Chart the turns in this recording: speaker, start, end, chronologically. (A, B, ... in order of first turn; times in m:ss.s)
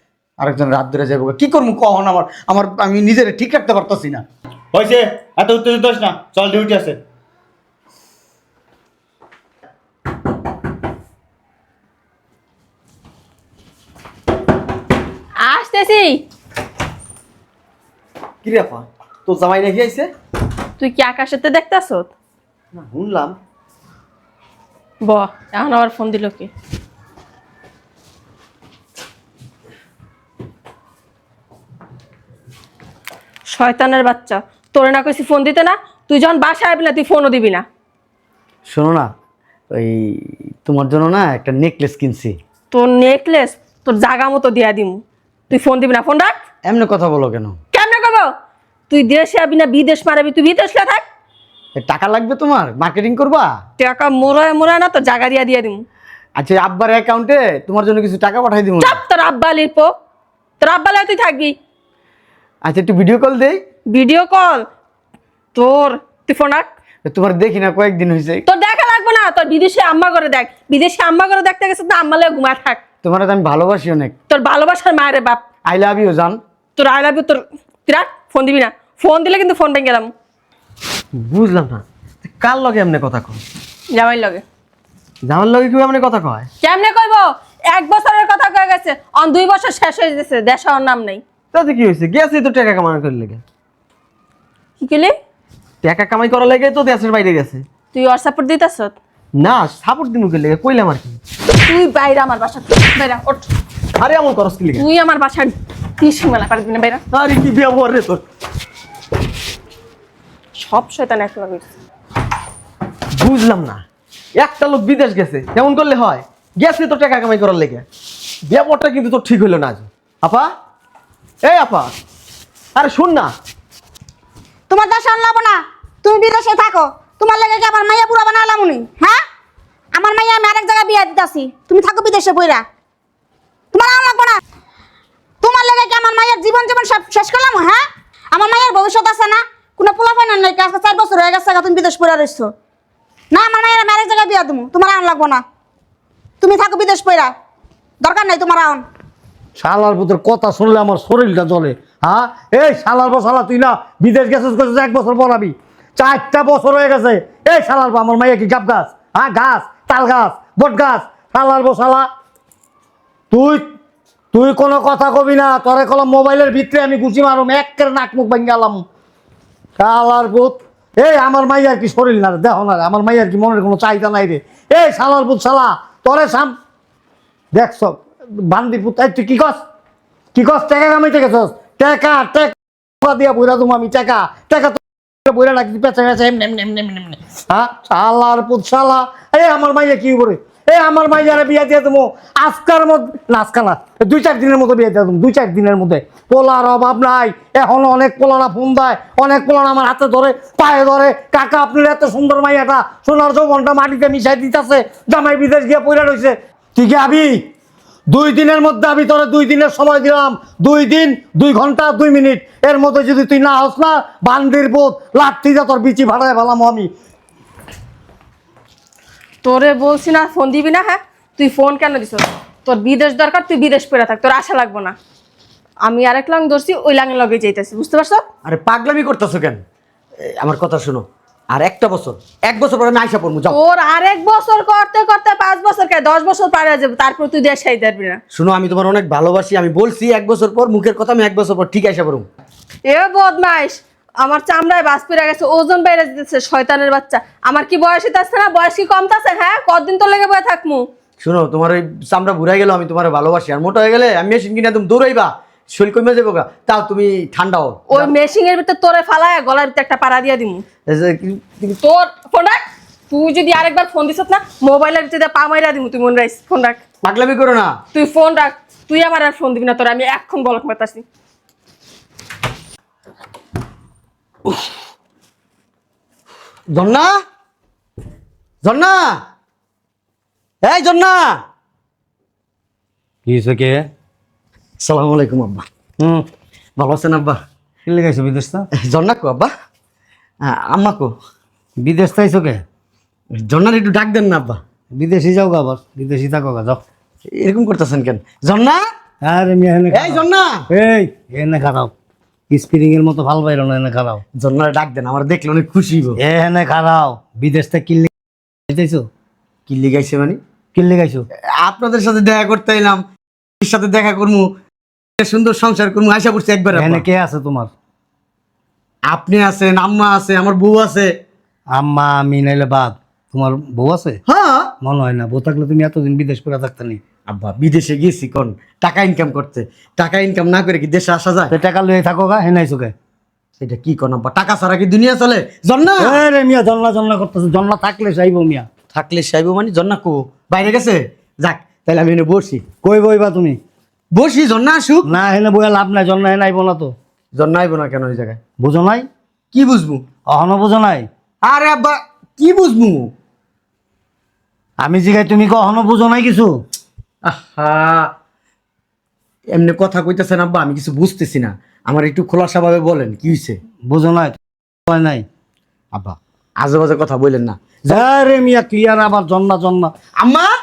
0:00.4-0:04.2 A
0:04.7-0:07.0 B
0:15.4-0:16.2 C
0:18.4-0:19.8 D
0:19.4-0:20.1 A
0:20.8-0:22.1 C
0:22.8-0:23.3 A
0:25.0-0:26.5 C
0:33.5-0:37.6 C
0:38.7-0:39.1 A
0:39.7-0:42.3 A
0:42.7-0:46.3 C
0:46.7-0:47.6 A
0:47.7-0:48.3 C
0:48.9-0:51.0 C
0:51.8-0:53.5 A
0:53.8-0:55.8 C
0:56.4-0:59.0 A
0:58.8-0:59.9 C
1:00.6-1:01.5 C
1:02.6-1:03.6 A
1:03.9-1:04.6 C
1:05.5-1:06.7 C
1:07.0-1:08.4 A
1:08.4-1:12.8 C
1:13.0-1:14.1 A
1:14.3-1:15.4 C
1:15.6-1:16.4 A
1:16.8-1:20.1 C
1:21.2-1:23.4 D
1:23.9-1:24.4 C
1:25.2-1:26.5 D
1:26.6-1:31.2 C
1:31.5-1:33.4 D
1:34.8-1:35.2 C
1:35.8-1:37.6 D
1:37.9-1:39.0 C
1:39.3-1:41.2 D
1:41.6-1:43.5 C
1:44.0-1:44.8 D
1:44.7-1:47.0 C
1:47.1-1:48.2 D
1:50.6-1:51.7 C
1:53.2-1:53.8 D
1:54.4-1:57.8 D
1:58.5-2:00.5 D
2:01.4-2:01.9 D
2:02.7-2:03.3 D
2:04.7-2:09.2 E
2:09.9-2:12.6 E
2:13.7-2:14.4 E
2:15.4-2:22.5 E
2:23.3-2:25.4 E
2:26.4-2:27.3 E
2:28.0-2:28.8 E
2:29.6-2:42.1 F
2:43.3-2:43.6 F
2:44.3-2:48.8 F
2:49.8-2:56.5 F
2:57.5-2:59.6 F
3:00.3-3:27.4 F
3:28.1-3:36.9 F
3:39.4-3:44.9 C
3:45.8-3:48.2 C
3:48.4-3:49.6 A
3:50.2-3:53.6 A
3:53.5-3:58.2 C
3:58.3-4:02.2 A
4:02.9-4:10.8 C
4:11.2-4:18.1 A
4:17.9-4:20.6 C
4:20.9-4:21.7 A
4:21.7-4:26.8 C
4:27.0-4:27.7 A
4:27.9-4:31.0 C
4:36.7-4:37.1 A
4:38.6-4:39.2 A
4:40.6-4:41.4 A
4:43.3-4:43.8 F
4:44.8-4:45.6 A
4:46.0-4:46.2 F
4:46.8-4:47.4 A
4:47.8-4:48.7 F
4:48.8-4:49.5 A
4:50.4-4:51.1 A
4:51.8-4:52.6 F
4:53.4-4:54.6 A
4:54.9-4:56.8 F
4:57.3-4:58.8 A
4:59.2-5:01.9 F
4:59.9-5:00.5 A
5:02.5-5:04.2 F
5:04.4-5:06.2 A
5:06.2-5:08.1 F
5:08.7-5:09.0 F
5:09.7-5:10.4 A
5:10.7-5:11.2 F
5:11.6-5:13.0 A
5:13.6-5:14.5 A
5:15.2-5:17.0 A
5:16.7-5:17.7 F
5:19.1-5:21.1 A
5:21.7-5:24.2 F
5:24.3-5:24.7 A
5:24.8-5:27.0 F
5:27.3-5:31.5 A
5:31.5-5:32.9 F
5:33.6-5:36.2 A
5:36.0-5:38.6 F
5:38.9-5:42.6 A
5:42.8-5:43.6 F
5:44.1-5:45.1 A
5:45.0-5:46.9 F
5:47.3-5:48.4 A
5:48.6-5:49.1 F
5:49.5-5:50.0 A
5:50.3-5:51.1 F
5:51.4-5:53.1 A
5:54.8-5:56.5 F
5:57.2-5:58.1 A
5:59.5-6:03.6 A
6:03.9-6:05.2 F
6:05.9-6:08.0 A
6:07.9-6:09.9 F
6:10.2-6:10.5 A